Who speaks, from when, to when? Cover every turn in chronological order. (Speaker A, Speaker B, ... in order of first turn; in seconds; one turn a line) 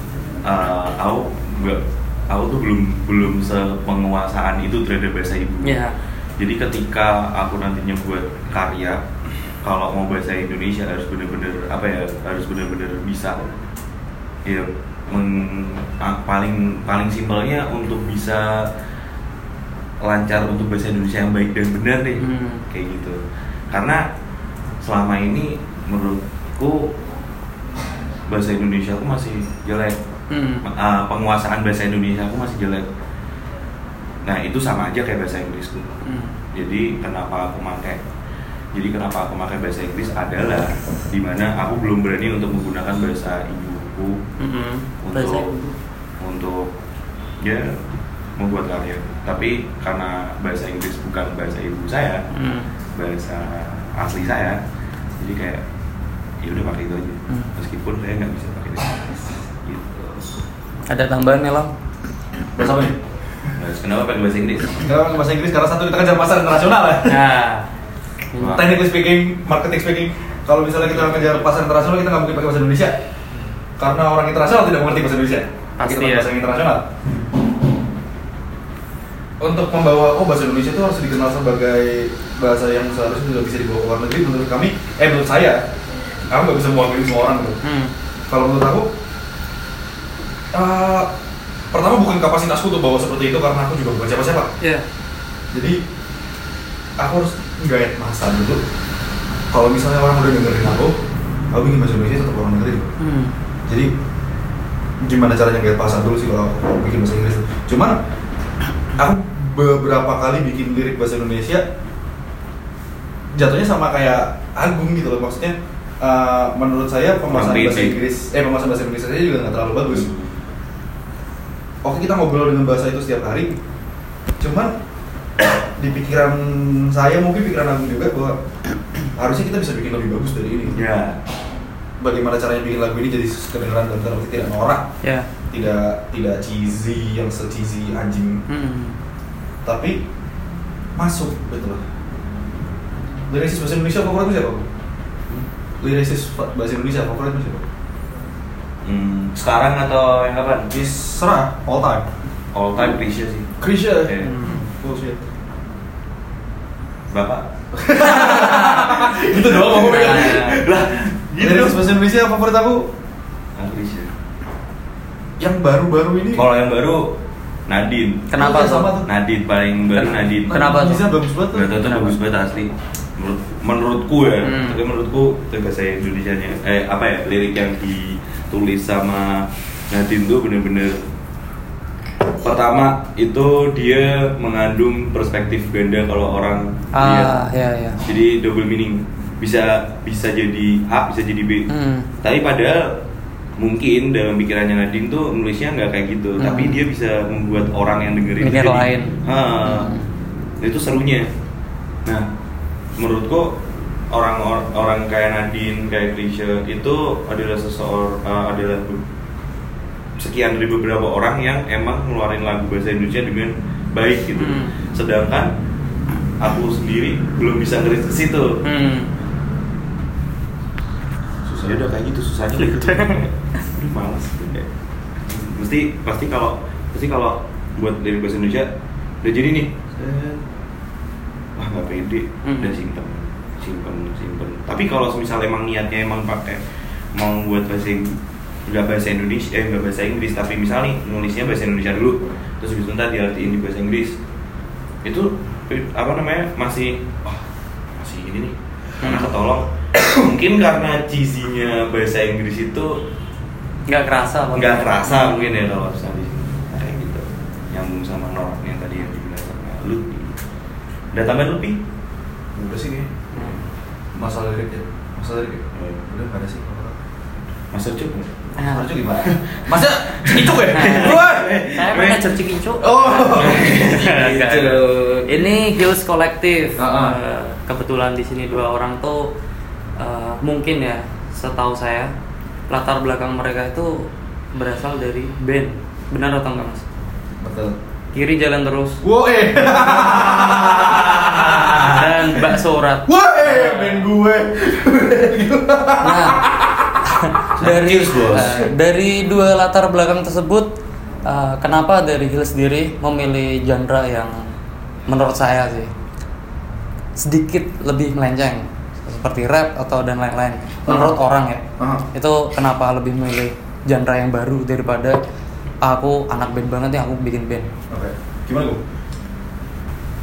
Speaker A: 0.5-5.8
Speaker B: 5.6-6.0
Speaker A: 6.4-9.0
Speaker A: 9.6-13.5
Speaker A: 14.4-18.7
Speaker A: 20.0-24.0
Speaker B: 22.2-22.6
Speaker A: 24.8-26.9
Speaker A: 28.3-30.0
Speaker B: 30.3-30.6
Speaker A: 30.6-32.9
Speaker A: 34.2-35.9
Speaker B: 36.0-36.3
Speaker A: 36.5-38.0
Speaker A: 38.7-44.2
Speaker B: 44.4-45.7
Speaker A: 45.0-45.5
Speaker A: 46.2-46.7
Speaker A: 47.4-47.8
Speaker A: 48.4-52.2
Speaker B: 52.3-52.7
Speaker A: 53.0-54.6
Speaker A: 55.2-55.6
Speaker A: 56.4-60.3
Speaker B: 60.9-61.7
Speaker C: 62.5-63.0
Speaker A: 63.6-64.9
Speaker C: 64.8-67.2
Speaker B: 67.1-67.7
Speaker B: 68.3-68.6
Speaker A: 68.4-68.7
Speaker C: 68.4-73.0
Speaker A: 70.9-71.4
Speaker C: 73.8-76.9
Speaker B: 75.8-76.3
Speaker C: 79.4-85.7
Speaker C: 86.3-87.6
Speaker B: 87.6-87.9
Speaker C: 88.3-88.9
Speaker C: 90.5-91.1
Speaker C: 91.7-94.5
Speaker C: 95.5-95.8
Speaker C: 97.0-98.6
Speaker C: 99.5-101.0
Speaker C: 101.5-102.9
Speaker B: 103.0-103.4
Speaker C: 105.0-108.0
Speaker C: 109.0-111.6
Speaker C: 113.3-120.1
Speaker A: 117.3-118.0
Speaker A: 119.9-120.3
Speaker C: 121.8-123.6
Speaker C: 124.4-124.7
Speaker C: 125.4-128.4
Speaker C: 129.2-130.8
Speaker A: 130.7-131.2
Speaker C: 132.0-134.9
Speaker B: 135.0-135.3
Speaker C: 135.5-138.4
Speaker B: 138.5-139.0
Speaker C: 139.6-140.0
Speaker C: 141.0-141.8
Speaker C: 143.3-144.7
Speaker C: 145.8-147.6
Speaker A: 148.8-150.7
Speaker C: 150.7-152.1
Speaker A: 152.5-154.4
Speaker C: 153.6-155.2
Speaker B: 154.2-154.6
Speaker A: 157.1-157.5
Speaker C: 157.7-160.7
Speaker A: 158.1-161.9
Speaker B: 158.4-158.8
Speaker B: 159.7-160.6
Speaker C: 161.4-162.9
Speaker A: 163.6-164.1
Speaker C: 165.4-166.4
Speaker A: 166.4-167.1
Speaker A: 167.7-168.3
Speaker B: 168.3-168.9
Speaker C: 168.4-169.1
Speaker A: 169.1-170.8
Speaker B: 169.9-171.1
Speaker C: 170.5-171.8
Speaker A: 171.5-181.1
Speaker B: 171.8-172.1
Speaker B: 174.4-174.8
Speaker A: 182.4-187.4
Speaker B: 186.9-188.0
Speaker A: 188.0-191.7
Speaker B: 191.7-192.1
Speaker A: 192.2-193.0
Speaker A: 193.6-199.9
Speaker B: 196.4-196.8
Speaker B: 198.4-200.1
Speaker A: 200.6-201.3
Speaker A: 203.0-203.6
Speaker A: 204.1-209.0
Speaker A: 210.2-215.5
Speaker B: 214.4-214.7
Speaker A: 216.4-218.6
Speaker B: 218.6-219.1
Speaker C: 221.4-221.8
Speaker A: 221.6-224.7
Speaker B: 222.6-223.2
Speaker A: 225.2-228.7
Speaker A: 229.2-230.4
Speaker A: 231.6-236.6
Speaker B: 232.4-232.8
Speaker A: 237.1-244.2
Speaker A: 245.0-247.4
Speaker A: 248.0-253.1
Speaker B: 249.0-249.3
Speaker B: 253.9-255.4
Speaker A: 254.5-260.4
Speaker A: 261.1-261.8
Speaker C: 262.6-263.1
Speaker B: 263.4-263.6
Speaker C: 264.1-267.0
Speaker A: 265.8-266.0
Speaker A: 267.7-268.5
Speaker B: 268.6-268.9
Speaker C: 268.6-272.1
Speaker A: 269.2-272.2
Speaker B: 270.7-279.3
Speaker C: 272.8-273.9
Speaker A: 273.3-275.3
Speaker C: 276.8-277.1
Speaker B: 280.0-282.1
Speaker B: 282.7-286.9
Speaker C: 287.4-287.8
Speaker B: 288.1-289.0
Speaker C: 289.0-292.2
Speaker A: 290.1-291.8
Speaker B: 291.6-294.1
Speaker C: 293.1-297.0
Speaker B: 296.0-296.4
Speaker B: 297.0-300.7
Speaker A: 297.6-298.6
Speaker B: 301.2-304.5
Speaker B: 305.1-305.9
Speaker B: 307.1-315.2
Speaker C: 310.9-311.2
Speaker C: 311.8-312.1
Speaker B: 315.8-317.7
Speaker C: 317.9-318.8